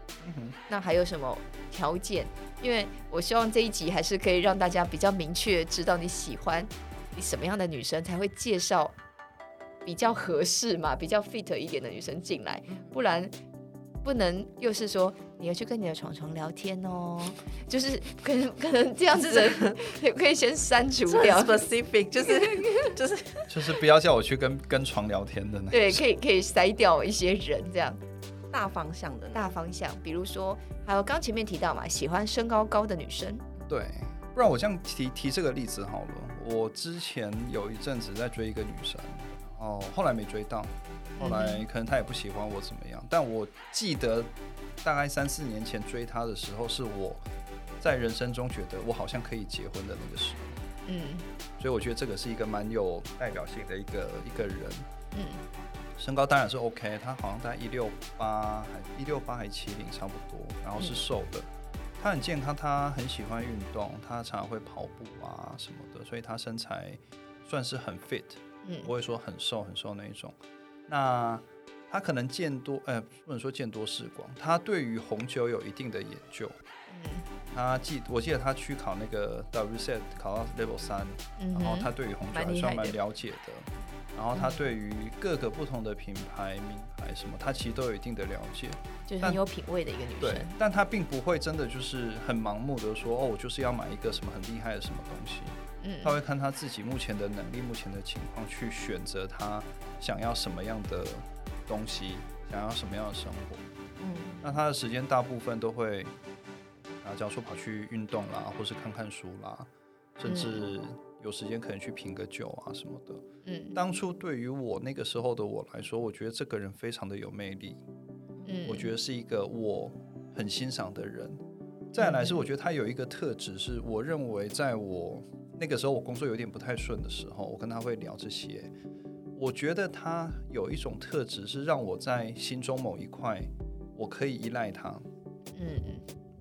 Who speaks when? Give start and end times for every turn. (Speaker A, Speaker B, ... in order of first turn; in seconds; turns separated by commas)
Speaker A: 0.2-0.6, Speaker B: 0.7-8.9, Speaker B: 9.8-13.3, Speaker B: 14.0-21.6, Speaker C: 19.2-19.8, Speaker C: 21.1-23.7, Speaker B: 22.4-22.9, Speaker A: 23.5-26.0, Speaker B: 25.7-28.0, Speaker C: 28.5-29.5, Speaker B: 29.3-33.4, Speaker A: 33.7-44.3, Speaker B: 41.2-41.6, Speaker A: 44.8-47.2, Speaker A: 47.8-50.6, Speaker B: 50.9-51.2, Speaker A: 51.6-54.9, Speaker B: 55.1-55.4, Speaker A: 56.0-61.5, Speaker A: 62.0-70.3, Speaker B: 68.6-68.9, Speaker A: 70.9-76.6, Speaker B: 76.9-77.3, Speaker A: 77.5-89.4, Speaker B: 81.4-83.0, Speaker B: 89.1-90.5, Speaker A: 90.2-103.7, Speaker B: 95.8-96.2, Speaker C: 104.0-104.4, Speaker A: 104.4-106.1, Speaker A: 107.0-117.8, Speaker B: 110.3-110.7, Speaker B: 113.4-113.8, Speaker B: 118.5-118.9, Speaker A: 118.7-121.4, Speaker A: 121.9-128.7, Speaker B: 122.0-122.4, Speaker A: 129.3-135.0, Speaker B: 135.5-136.0